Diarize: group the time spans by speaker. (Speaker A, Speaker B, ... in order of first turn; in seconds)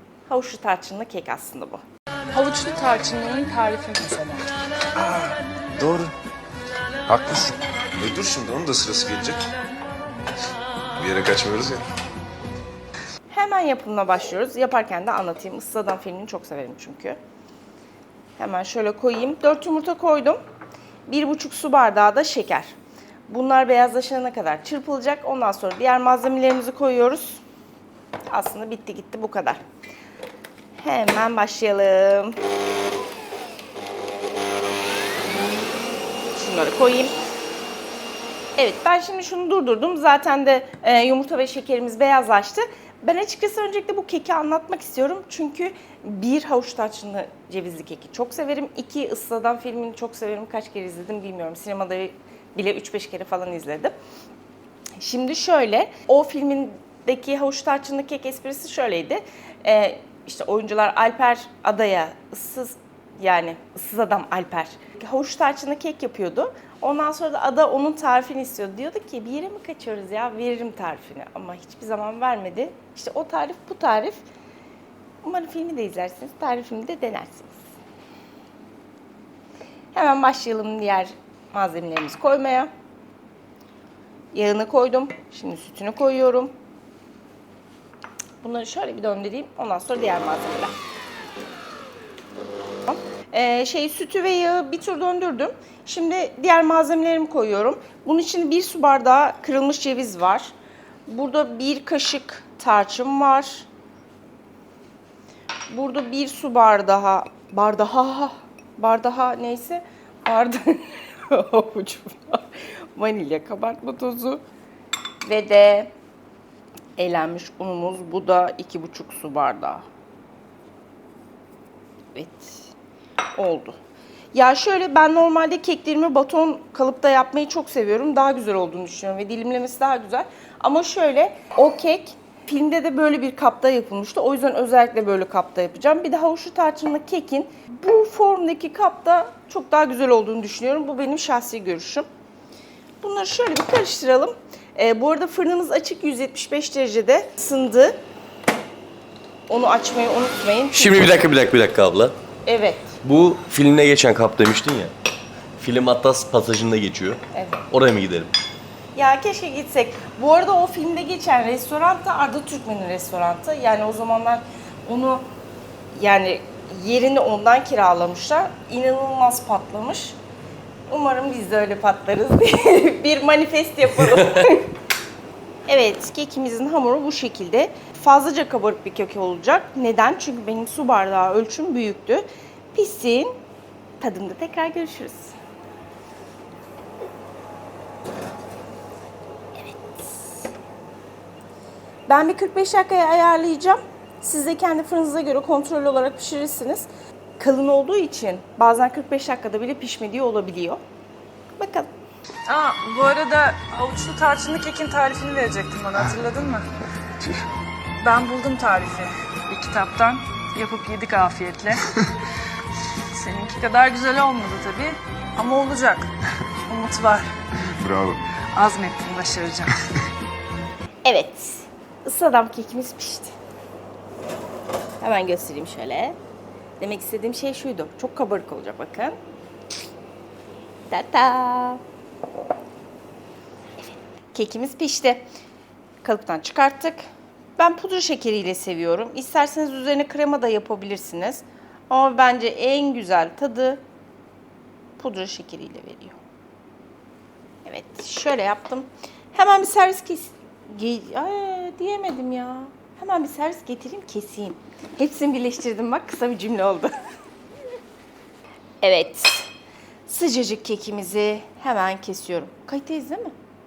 Speaker A: 0.3-1.8, 13.3-17.2, 18.4-20.4, 21.1-22.8, 23.3-27.4, 28.3-29.6, 30.7-32.4, 36.3-37.1, 38.6-53.9, 55.0-74.2, 75.2-77.6, 79.9-82.7, 84.3-86.5, 88.4-90.7, 92.8-100.5, 101.1-103.7, 105.7-114.4, 115.2-115.9, 117.0-119.8, 122.2-122.7, 123.3-123.8, 124.3-142.1, 143.0-148.0, 149.5-151.1, 152.4-153.0, 157.3-157.6, 159.0-165.3, 165.9-170.2, 170.9-174.7, 175.7-183.3, 184.0-185.4, 189.6-190.3, 192.1-200.8, 201.6-201.9, 221.1-223.3, 225.0-226.2, 226.8-229.2, 230.9-231.8, 234.3-235.2, 236.0-237.0, 237.6-243.8, 245.0-246.2, 247.7-256.9, 258.8-259.5, 260.1-263.3
Speaker B: 2.3-4.5, 202.5-206.7, 208.0-212.1, 213.1-216.1, 216.7-217.7, 218.5-219.8
Speaker C: 5.0-6.1, 7.1-9.4, 11.0-11.9, 217.7-218.2
Speaker D: 150.8-152.2, 153.0-154.9, 155.6-158.3